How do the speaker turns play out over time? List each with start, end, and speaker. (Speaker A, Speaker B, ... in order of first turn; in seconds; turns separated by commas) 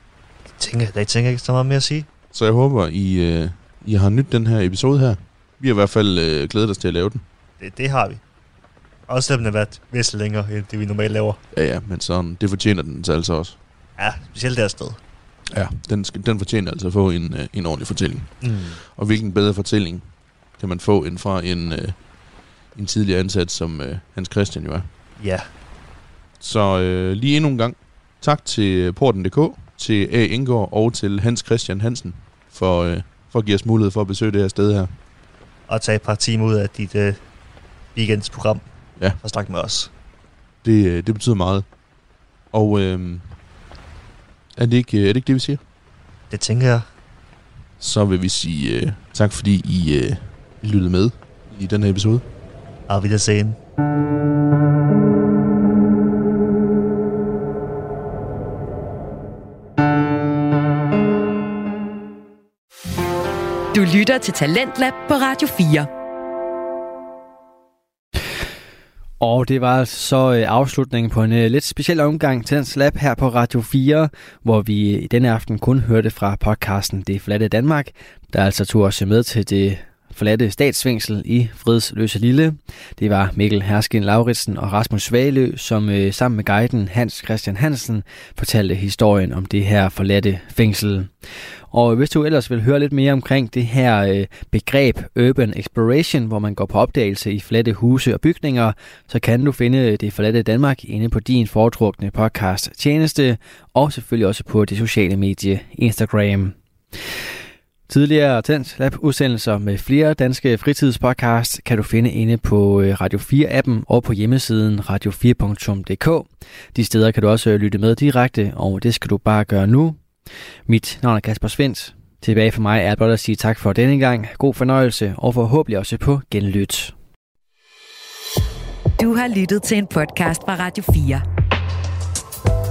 Speaker A: 0.6-2.1, Speaker B: 2.3-7.2, Speaker A: 7.6-8.2, Speaker A: 9.1-11.4, Speaker B: 11.5-13.6, Speaker A: 14.0-15.0, Speaker B: 15.5-22.1, Speaker A: 18.4-18.8, Speaker B: 22.7-24.9, Speaker A: 25.2-25.5, Speaker B: 26.4-35.0, Speaker A: 35.7-37.2, Speaker A: 37.9-39.9, Speaker B: 40.6-41.7, Speaker B: 42.5-43.3, Speaker B: 44.6-45.6, Speaker A: 46.3-46.9, Speaker B: 47.8-52.2, Speaker A: 52.9-53.6, Speaker C: 63.7-65.9, Speaker D: 69.2-91.1, Speaker D: 91.7-107.2, Speaker D: 107.9-120.0, Speaker D: 120.7-126.9, Speaker C: 129.0-131.2